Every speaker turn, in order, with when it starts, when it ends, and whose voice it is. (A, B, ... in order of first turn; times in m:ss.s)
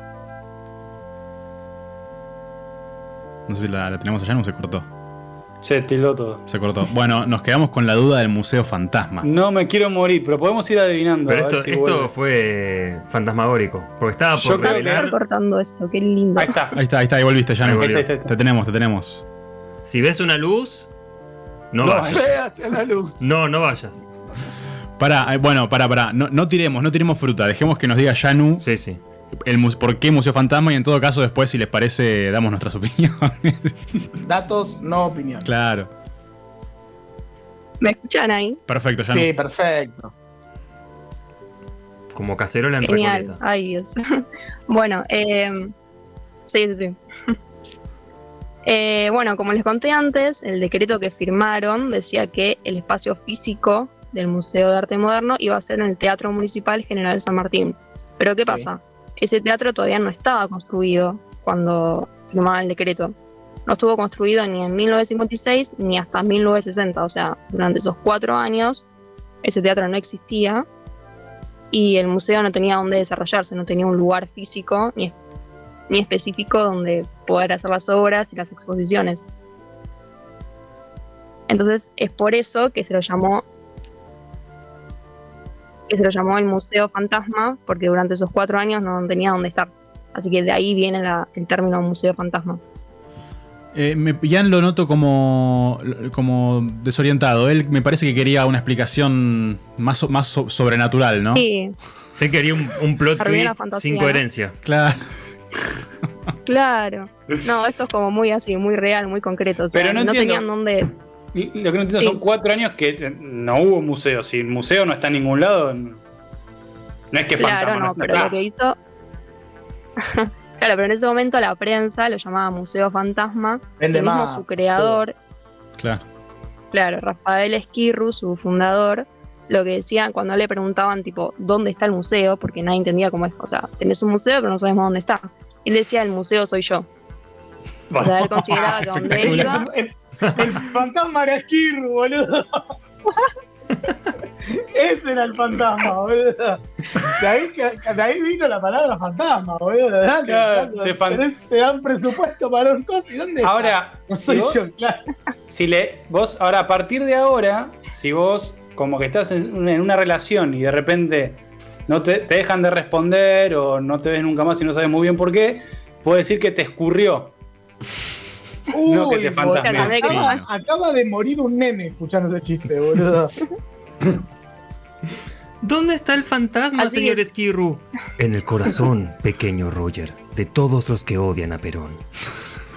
0:03.5-0:04.8 A
0:05.6-0:06.4 B
0:06.4-0:09.3 A
0:09.2-0:12.1 B
0:11.3-0:15.1 C
0:14.4-0:15.0 B
0:14.5-0:16.6 D
0:16.3-0:16.8 B
0:16.7-0:19.2 A
0:17.6-0:18.1 C
0:17.8-0:18.3 B
0:19.8-0:20.9 C
0:21.7-0:22.4 C
0:21.8-0:22.2 B
0:22.1-0:23.2 E
0:23.2-0:24.0 C
0:25.0-0:28.6 A
0:28.6-0:29.0 C
0:29.4-0:33.8 A
0:34.2-0:35.5 E
0:35.4-0:35.9 A
0:37.8-0:38.6 D
0:38.7-0:39.3 A
0:39.1-0:40.1 E
0:42.1-0:43.4 C
0:42.8-0:44.0 D
0:44.7-0:45.7 D
0:46.5-0:47.3 D
0:48.6-1:03.1 D
1:03.7-1:08.8 D
1:09.4-1:10.6 D
1:11.7-1:15.1 D
1:15.9-1:19.2 D
1:21.5-1:23.4 D
1:25.9-1:32.6 D
1:33.7-1:41.4 A
1:41.3-1:41.8 D
1:42.2-1:44.5 C
1:43.2-1:44.2 D
1:44.6-1:45.1 A
1:46.4-1:50.9 D
1:49.7-1:50.5 B
1:51.3-1:56.0 B
1:57.1-1:58.4 B
1:57.4-1:58.8 D
2:00.0-2:05.1 D
2:03.8-2:05.0 E
2:06.7-2:16.9 D
2:18.0-2:19.7 D
2:18.5-2:22.6 E
2:24.5-2:35.0 E
2:30.2-2:31.2 B
2:33.4-2:34.6 B
2:35.5-2:47.3 B
2:48.7-2:53.3 E
2:48.9-2:50.2 B
2:49.6-2:50.4 D
2:49.8-2:50.4 A
2:55.6-3:02.0 C
2:56.8-2:57.2 D